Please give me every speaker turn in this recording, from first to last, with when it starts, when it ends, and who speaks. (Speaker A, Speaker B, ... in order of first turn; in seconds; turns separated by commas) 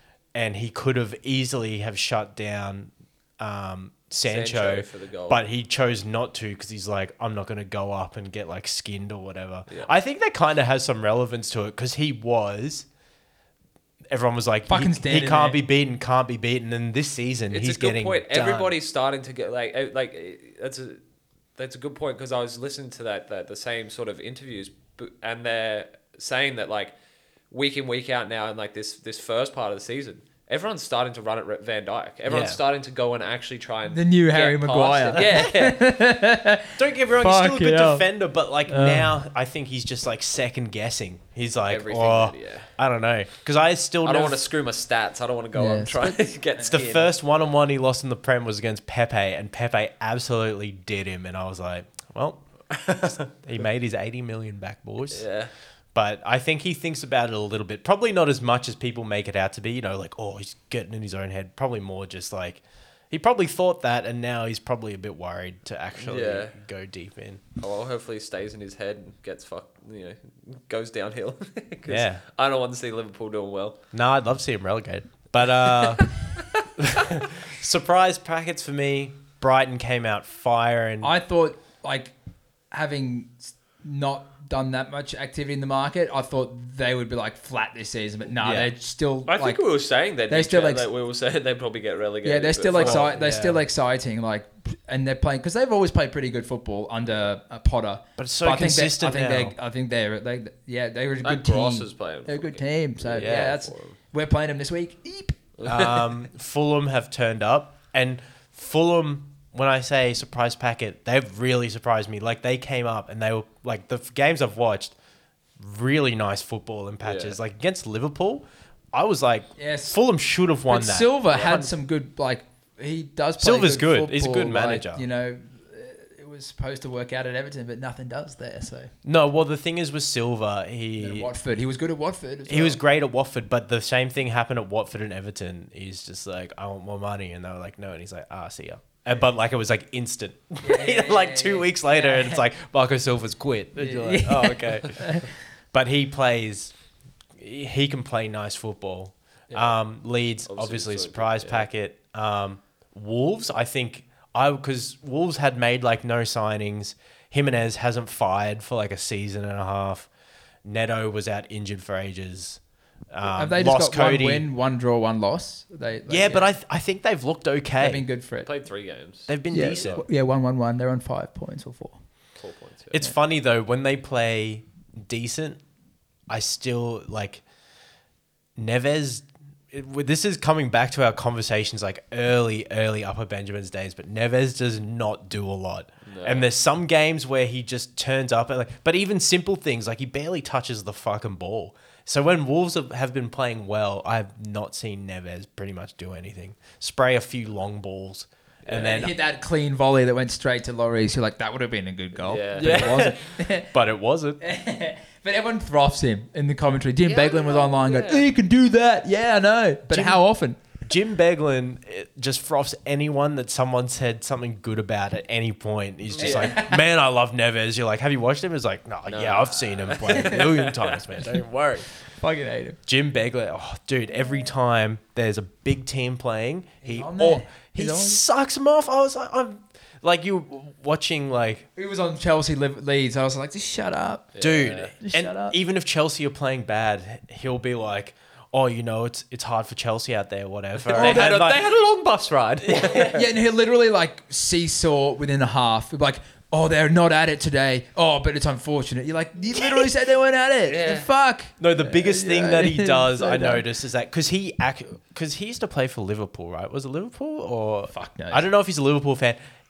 Speaker A: 0.3-12.9, Speaker B: 4.2-5.4, Speaker A: 14.1-18.8, Speaker C: 14.7-15.6, Speaker B: 17.5-21.0, Speaker B: 21.6-26.9, Speaker B: 27.5-35.8, Speaker A: 32.3-32.6, Speaker C: 33.9-38.1, Speaker A: 35.1-35.5, Speaker A: 36.8-44.4, Speaker C: 38.7-39.2, Speaker B: 41.7-42.7, Speaker B: 44.0-47.1, Speaker C: 45.5-46.9, Speaker A: 46.7-52.4, Speaker B: 52.7-53.3, Speaker A: 53.0-55.3, Speaker B: 55.1-55.5, Speaker A: 56.0-67.4, Speaker B: 66.0-66.6, Speaker B: 67.6-73.8, Speaker A: 71.9-72.2, Speaker A: 73.9-76.1, Speaker B: 75.6-76.6, Speaker A: 76.8-81.1, Speaker C: 81.0-82.1, Speaker C: 82.7-89.6, Speaker A: 88.4-88.7, Speaker B: 89.3-93.1, Speaker C: 90.3-90.9, Speaker C: 92.2-105.4, Speaker A: 92.7-93.7, Speaker A: 98.2-99.5, Speaker B: 101.2-104.0, Speaker A: 103.2-103.6, Speaker B: 105.6-106.1, Speaker A: 105.6-115.0, Speaker A: 115.6-121.7, Speaker B: 117.0-117.4, Speaker C: 119.6-120.0, Speaker C: 120.7-128.9, Speaker A: 123.4-125.0, Speaker A: 129.0-131.3, Speaker C: 131.0-132.8, Speaker A: 132.5-146.7, Speaker C: 140.6-142.4, Speaker C: 143.8-145.3, Speaker A: 147.4-160.1, Speaker B: 149.5-149.8, Speaker B: 150.5-151.7, Speaker A: 160.6-162.6, Speaker A: 163.1-164.5, Speaker C: 163.2-166.5, Speaker A: 166.1-168.0, Speaker C: 167.8-168.5, Speaker B: 168.4-170.1, Speaker A: 169.3-170.0, Speaker C: 169.5-172.0, Speaker B: 172.4-173.0, Speaker A: 172.9-175.6, Speaker A: 176.3-177.4, Speaker A: 178.6-199.2, Speaker B: 186.1-186.5, Speaker B: 198.6-199.0, Speaker C: 198.7-203.7, Speaker B: 202.2-203.0, Speaker A: 202.6-204.4, Speaker C: 204.4-210.6, Speaker B: 207.1-208.3, Speaker A: 209.9-210.3, Speaker A: 210.8-221.9, Speaker B: 216.1-216.6, Speaker C: 216.2-216.8, Speaker B: 219.1-221.0, Speaker C: 222.1-222.8, Speaker A: 222.9-231.7, Speaker C: 226.8-228.2, Speaker C: 231.8-234.3, Speaker B: 234.3-234.9, Speaker A: 234.4-241.7, Speaker C: 235.0-235.6, Speaker B: 240.8-243.2, Speaker C: 240.9-241.3, Speaker A: 242.6-243.1, Speaker C: 243.1-253.6, Speaker B: 250.7-251.1, Speaker A: 251.6-259.4, Speaker C: 257.9-258.5